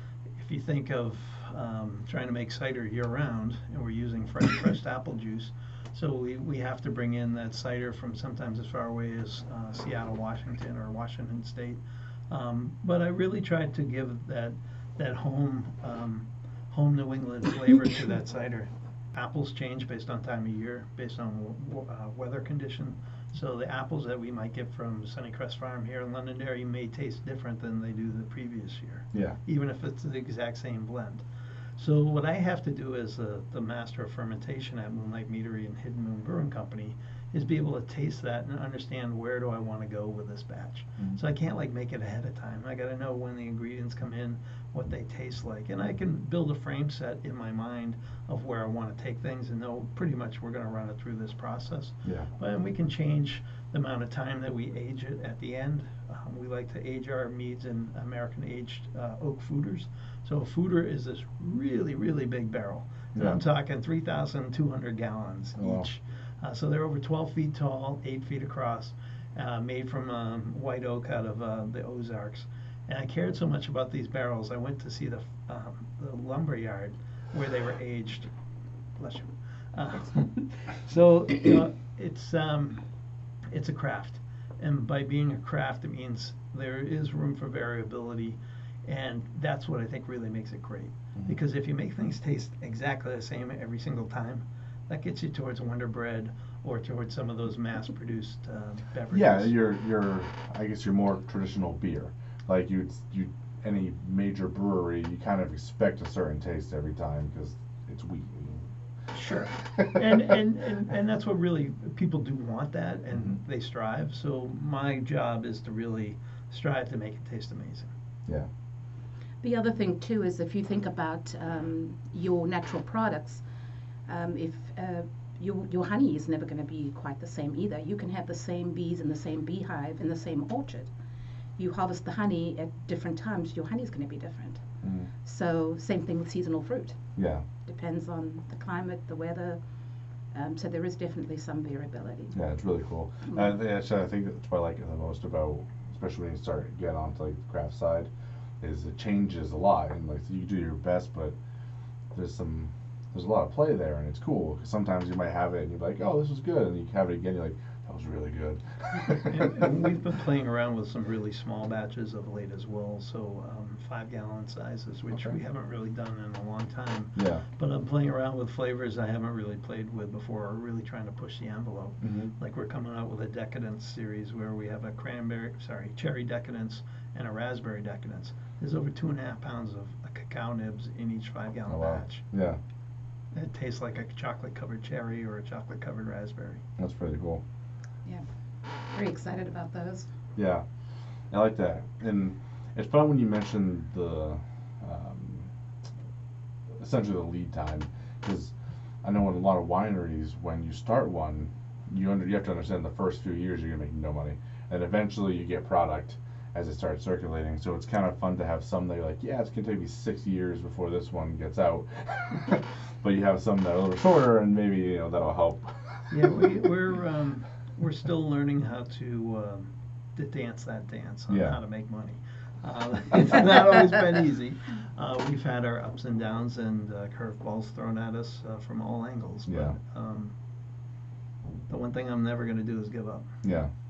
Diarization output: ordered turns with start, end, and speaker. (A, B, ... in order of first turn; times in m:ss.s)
0:00.3-0:31.2 A
0:29.1-0:29.4 B
0:31.8-1:18.3 A
0:52.0-0:52.3 B
1:05.6-1:05.9 B
1:19.0-1:22.8 A
1:23.5-1:39.6 A
1:39.1-1:48.7 B
1:49.1-1:57.9 A
1:59.4-2:03.4 C
2:04.0-2:10.9 C
2:11.6-2:14.6 C
2:14.8-2:15.1 B
2:15.2-2:17.0 C
2:17.2-2:17.4 B
2:17.6-2:19.6 C
2:20.3-2:22.3 C
2:22.3-2:28.1 B
2:23.3-2:23.6 C
2:28.6-2:31.3 B
2:32.1-2:39.7 B
2:39.3-3:02.2 A
2:47.1-2:47.4 B
2:52.0-2:52.3 B
3:01.7-3:02.6 B
3:03.3-3:06.6 A
3:06.8-3:07.4 B
3:08.9-3:10.1 C
3:10.4-3:10.6 B
3:11.3-3:15.5 B
3:16.8-3:18.5 B
3:19.0-3:35.7 B
3:36.1-3:50.3 A
3:41.3-3:41.6 B
3:49.4-3:49.7 B
3:51.7-3:53.3 A
3:53.4-3:53.7 B